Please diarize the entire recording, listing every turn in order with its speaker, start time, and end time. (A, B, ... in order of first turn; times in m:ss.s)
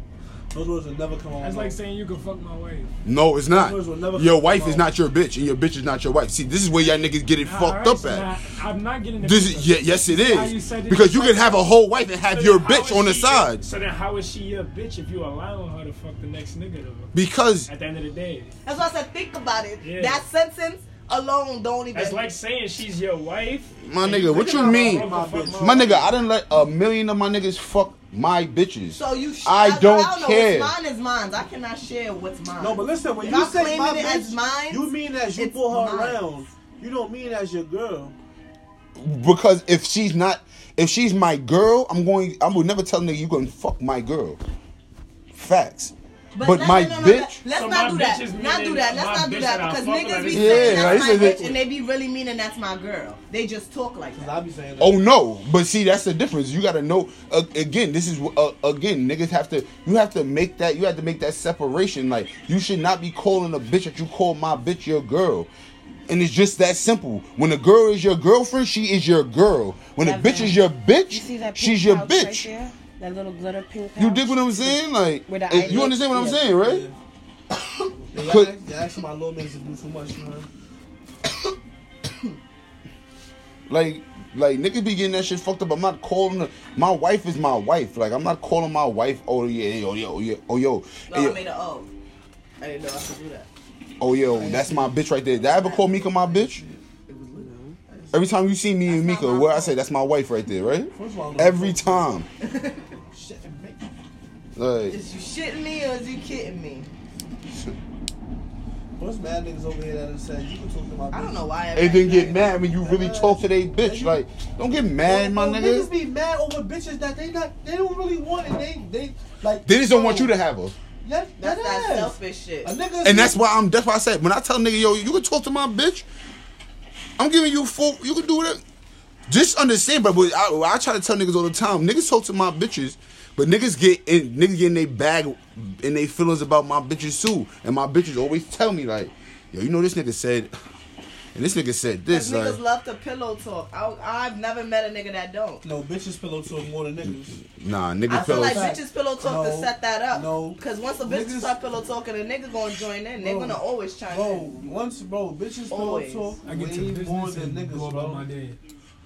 0:00.5-0:01.7 A
0:01.4-0:02.9 B
0:03.0-0:08.3 C
0:03.5-0:04.9 A
0:07.4-0:11.7 B
0:09.2-0:13.6 C
0:12.2-0:17.1 B
0:17.1-0:17.7 C
0:17.7-0:18.5 B
0:18.6-0:22.2 D
0:19.8-0:20.2 B
0:21.9-0:26.0 B
0:23.8-0:25.1 C
0:24.0-0:26.0 A
0:25.6-0:30.7 C
0:29.0-0:36.2 D
0:32.6-0:38.2 A
0:39.0-0:44.4 C
0:45.3-0:47.4 C
0:46.3-0:54.3 D
0:47.5-0:51.3 B
0:50.2-0:51.6 C
0:54.1-0:55.0 A
0:54.8-1:05.5 C
1:06.1-1:12.5 C
1:10.0-1:14.7 E
1:14.0-1:16.8 C
1:15.3-1:16.4 E
1:16.4-1:17.0 A
1:18.1-1:20.5 A
1:18.2-1:18.5 C
1:23.7-1:31.4 C
1:31.1-1:31.9 D
1:32.6-1:33.5 D
1:34.0-1:36.6 C
1:34.3-1:35.0 A
1:35.4-1:36.3 D
1:36.3-1:36.8 A
1:37.1-1:37.5 D
1:37.4-1:37.8 E
1:37.9-1:38.3 A
1:38.1-1:42.3 C
1:38.9-1:39.8 D
1:40.9-1:42.1 A
1:42.4-1:42.9 D
1:43.1-1:43.9 A
1:44.6-1:45.0 C
1:44.9-1:46.9 D
1:49.0-1:51.5 A
1:51.1-1:52.7 D
1:51.7-1:55.9 C
1:52.8-1:54.2 A
1:55.0-2:00.3 A
1:59.6-2:00.7 C
2:01.0-2:03.4 A
2:01.4-2:02.7 D
2:03.0-2:06.1 C
2:07.2-2:08.6 C
2:09.3-2:20.5 C
2:21.3-2:22.6 C
2:22.1-2:25.6 D
2:25.6-2:27.4 A
2:27.5-2:28.7 C
2:28.1-2:34.6 D
2:28.1-2:31.5 A
2:33.2-2:38.2 A
2:35.7-2:36.4 D
2:36.4-2:38.6 B